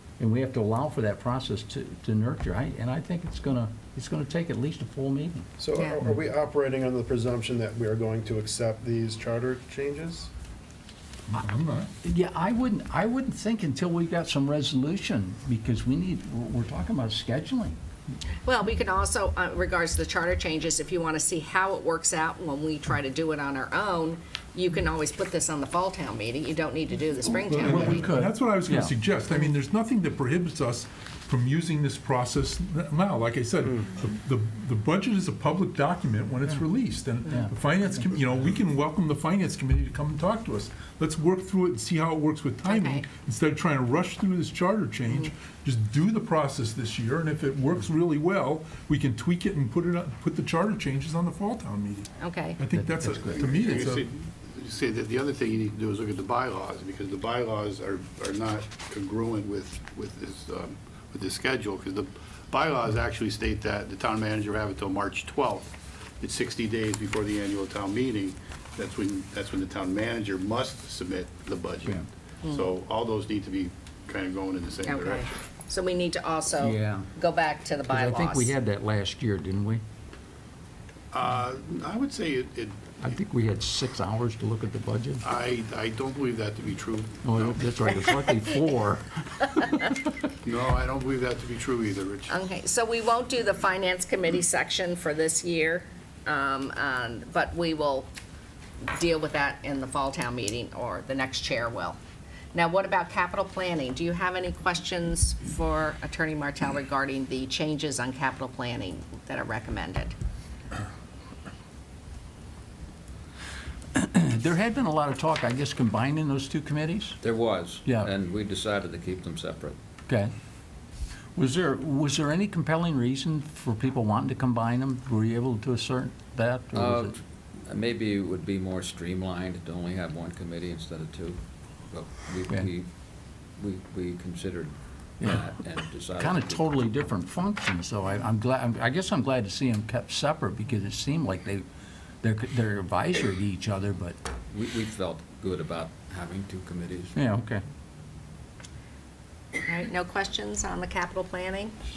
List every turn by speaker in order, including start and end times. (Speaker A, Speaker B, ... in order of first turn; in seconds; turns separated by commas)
Speaker A: 0.2-5.5, Speaker B: 5.6-10.3, Speaker C: 5.8-6.0, Speaker D: 11.3-11.9, Speaker A: 12.0-17.8, Speaker C: 18.4-28.1, Speaker D: 27.4-54.1, Speaker A: 27.6-28.9, Speaker A: 37.3-38.5, Speaker C: 42.6-43.1, Speaker C: 45.1-45.3, Speaker C: 52.2-52.6, Speaker A: 52.7-53.5, Speaker E: 53.3-75.3, Speaker C: 74.8-78.5, Speaker A: 76.6-77.1, Speaker A: 77.9-79.8, Speaker E: 81.1-83.2, Speaker A: 83.0-85.2, Speaker E: 85.2-87.6, Speaker A: 87.2-89.9, Speaker C: 87.9-88.5, Speaker E: 90.4-92.3, Speaker C: 92.3-98.1, Speaker C: 98.9-102.0, Speaker C: 102.5-110.2, Speaker A: 113.9-117.2, Speaker F: 117.2-119.8, Speaker A: 117.8-118.1, Speaker A: 120.1-120.3, Speaker A: 121.3-127.2, Speaker F: 126.7-132.9, Speaker F: 133.6-136.8, Speaker A: 135.2-135.5, Speaker A: 136.2-141.6, Speaker A: 142.2-144.2, Speaker F: 144.5-147.2, Speaker A: 147.1-147.6, Speaker C: 149.7-151.8